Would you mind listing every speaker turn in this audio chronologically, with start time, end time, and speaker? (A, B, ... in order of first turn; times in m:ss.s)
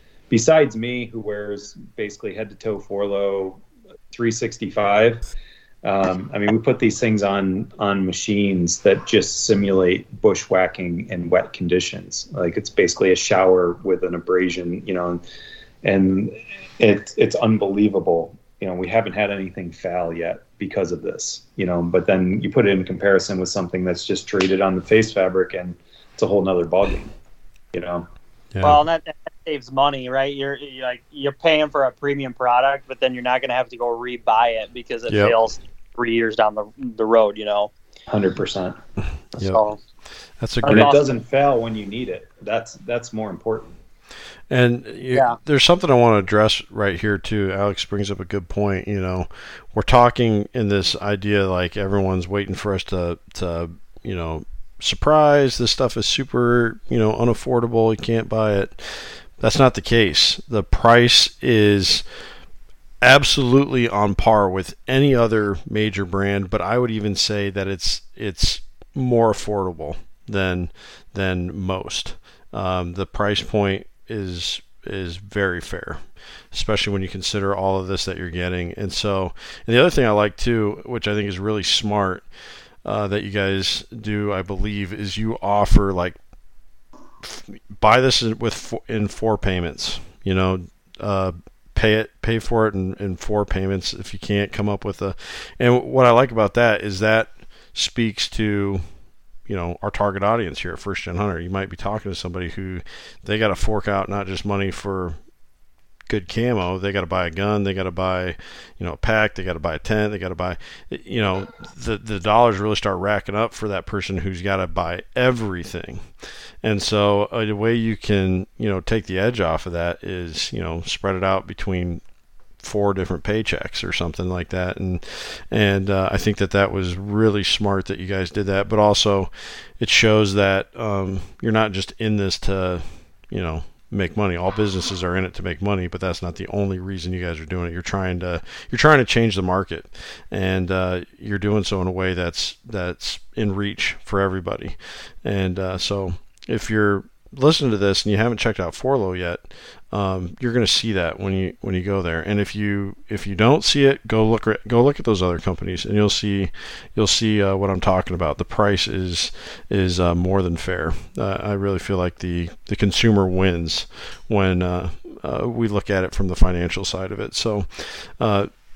0:00.3-0:05.2 A
0:05.8-0:15.2 A
0:15.8-0:27.1 A
0:27.7-0:28.1 A
0:28.6-0:28.8 B
0:28.6-0:37.7 C
0:35.1-0:35.4 B
0:38.1-0:38.8 A
0:39.4-0:39.6 B
0:39.4-0:39.8 C
0:40.4-0:40.9 B
0:40.6-0:41.0 C
0:40.6-0:43.8 A
0:44.5-1:02.0 B
1:03.0-1:22.2 B
1:22.8-1:26.2 B
1:27.2-1:38.8 B
1:39.5-1:45.2 B
1:46.1-1:56.1 B
1:56.6-2:02.0 B
2:02.6-2:48.5 B